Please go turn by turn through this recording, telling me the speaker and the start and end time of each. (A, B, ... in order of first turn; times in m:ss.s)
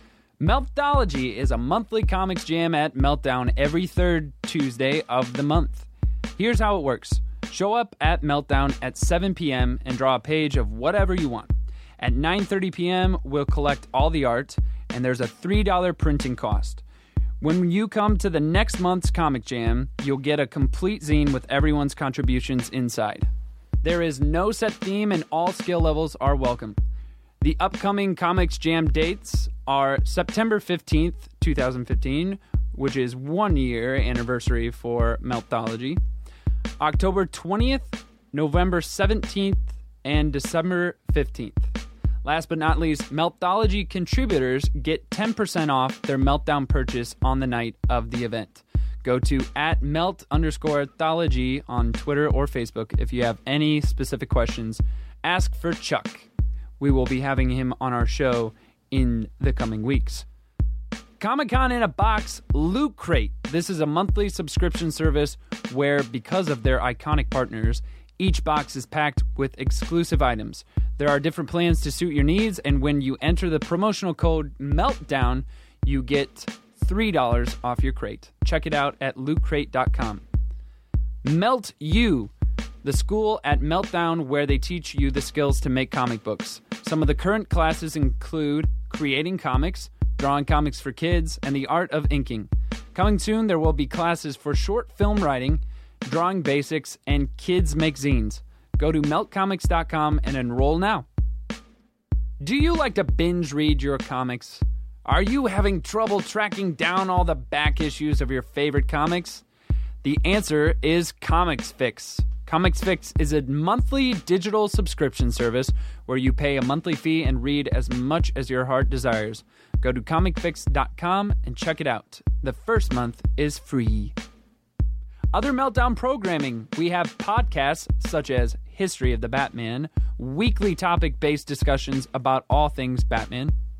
0:00.4-0:16.8 A
0:17.4-0:23.3 A
0:23.8-0:26.8 A
0:27.4-0:36.0 A
0:36.8-0:41.7 A
0:42.2-0:56.3 A
0:56.8-1:00.2 A
1:01.2-1:20.2 A
1:21.2-1:22.3 A
1:22.8-1:41.1 A
1:42.4-1:49.4 A
1:50.0-2:04.1 A
2:05.3-2:13.6 A